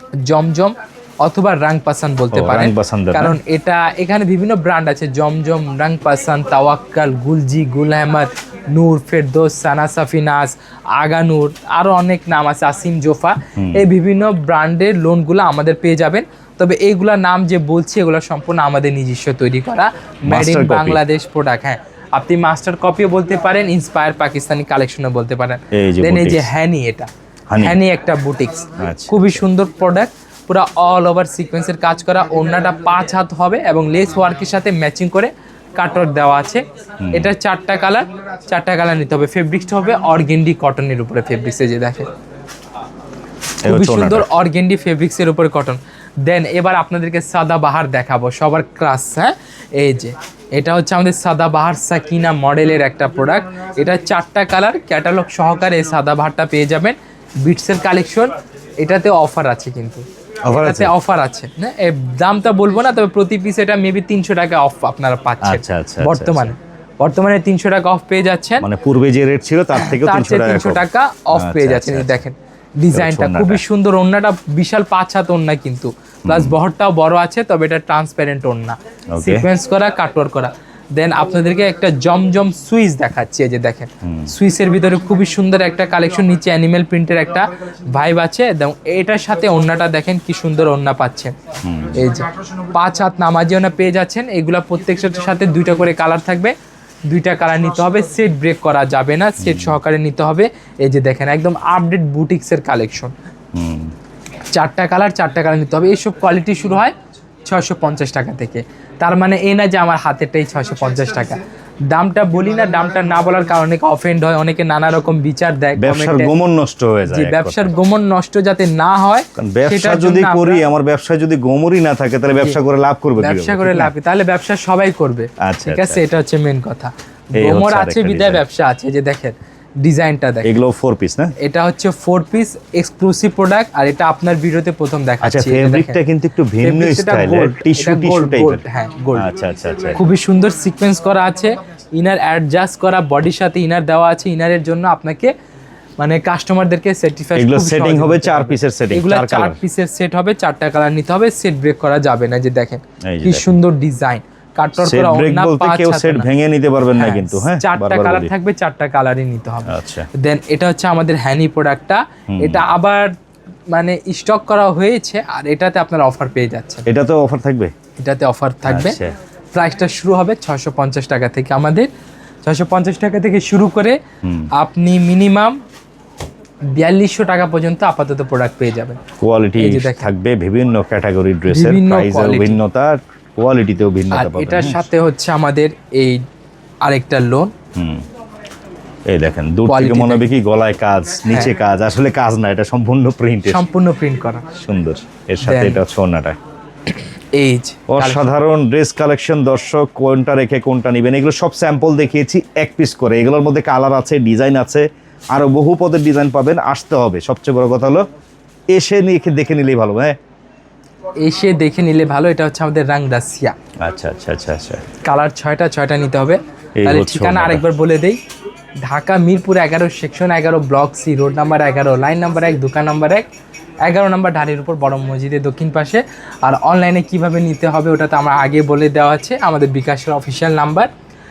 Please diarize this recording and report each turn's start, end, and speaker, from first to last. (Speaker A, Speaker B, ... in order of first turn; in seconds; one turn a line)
Speaker A: 0.2-42.1
Speaker B: 2.3-3.4
Speaker B: 13.6-13.8
Speaker B: 20.2-21.0
Speaker B: 25.7-26.5
Speaker B: 27.5-27.8
Speaker B: 28.8-29.4
Speaker B: 37.0-37.3
Speaker B: 43.6-44.3
Speaker A: 43.6-68.7
Speaker B: 60.4-60.9
Speaker B: 65.4-66.5
Speaker B: 68.6-72.2
Speaker A: 69.7-91.3
Speaker B: 72.9-73.6
Speaker B: 76.2-76.6
Speaker B: 79.1-79.5
Speaker B: 84.0-84.3
Speaker B: 91.6-92.0
Speaker A: 91.9-96.5
Speaker A: 97.1-103.1
Speaker B: 99.4-99.8
Speaker B: 103.5-103.9
Speaker A: 104.5-116.3
Speaker B: 115.8-117.7
Speaker A: 117.1-120.6
Speaker B: 119.3-123.9
Speaker A: 123.2-130.5
Speaker B: 125.4-126.0
Speaker B: 127.4-128.4
Speaker B: 130.4-131.3
Speaker A: 131.4-136.0
Speaker B: 135.2-138.6
Speaker A: 136.6-139.3
Speaker B: 139.1-140.0
Speaker A: 139.9-145.3
Speaker A: 146.0-156.3
Speaker B: 147.3-149.6
Speaker B: 153.0-153.6
Speaker B: 154.8-158.3
Speaker A: 156.9-163.1
Speaker B: 159.7-160.1
Speaker B: 162.3-162.7
Speaker A: 163.7-166.8
Speaker B: 166.9-167.7
Speaker A: 168.0-169.0
Speaker B: 168.7-169.1
Speaker A: 169.5-171.9
Speaker A: 172.4-174.0
Speaker B: 174.2-174.5
Speaker A: 174.5-175.6
Speaker A: 176.7-179.0
Speaker B: 179.2-184.8
Speaker A: 179.6-180.1
Speaker A: 181.5-182.6
Speaker A: 184.1-186.2
Speaker A: 186.8-187.5
Speaker B: 187.7-188.0
Speaker B: 189.1-193.6
Speaker A: 189.7-190.3
Speaker A: 191.3-191.5
Speaker A: 193.5-194.5
Speaker B: 194.5-196.4
Speaker A: 195.4-195.8
Speaker A: 196.9-198.3
Speaker B: 197.9-208.1
Speaker B: 208.7-210.2
Speaker A: 211.2-213.5
Speaker B: 213.8-214.8
Speaker A: 215.0-218.2
Speaker B: 216.8-217.6
Speaker A: 218.8-223.3
Speaker A: 223.8-230.9